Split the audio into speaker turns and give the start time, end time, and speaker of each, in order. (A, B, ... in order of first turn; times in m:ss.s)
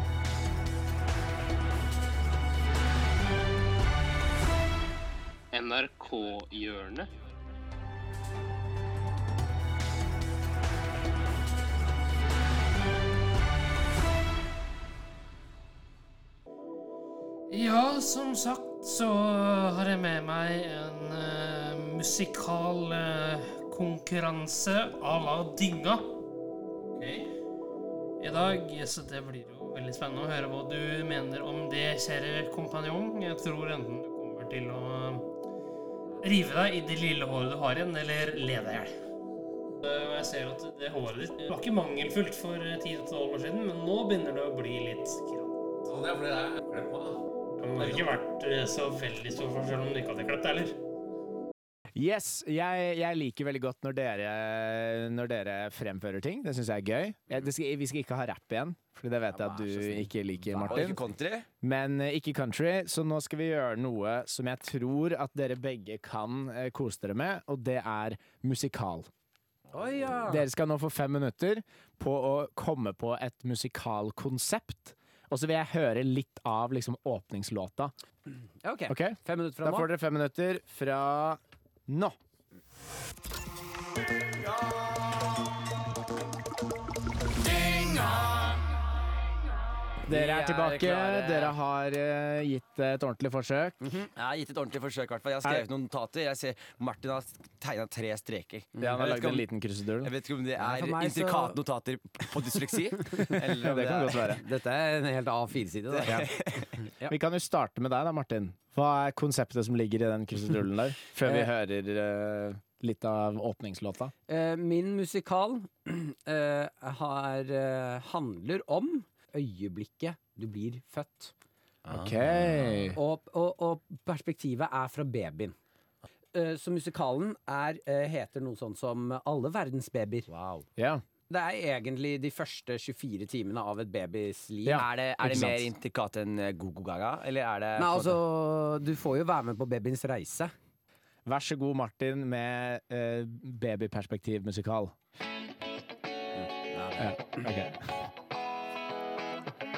0:05.5-0:07.1 A
0:17.5-0:26.1 A
0:26.9-0:27.3 B
0:28.2-0:35.3 A
0:36.2-0:39.0 A
0:39.8-0:45.6 A
0:45.9-0:47.2 B
0:47.6-0:50.8 A
0:47.8-0:48.1 B
0:51.9-1:01.0 C
0:59.3-1:01.0 D
1:00.6-1:01.4 E
1:01.6-1:09.1 C
1:09.7-1:10.4 D
1:10.3-1:17.9 C
1:18.6-1:19.9 D
1:18.9-1:22.2 C
1:30.1-1:33.8 C
1:30.1-1:31.5 E
1:34.1-1:39.4 E
1:38.8-1:40.1 C
1:40.0-1:44.3 E
1:40.6-1:41.6 D
1:43.3-1:44.4 C
1:44.3-1:47.1 D
1:47.0-1:54.1 C
1:51.2-1:51.5 D
1:54.3-2:01.3 D
2:01.8-2:02.4 E
2:01.9-2:03.0 C
2:03.0-2:05.6 D
2:06.3-2:10.3 D
2:10.3-2:10.6 E
2:10.8-2:11.0 C
2:11.3-2:14.8 D
2:14.6-2:15.7 C
2:14.7-2:18.2 E
2:17.8-2:20.5 D
2:21.2-2:24.9 C
2:26.4-2:27.2 D
2:27.0-2:27.8 C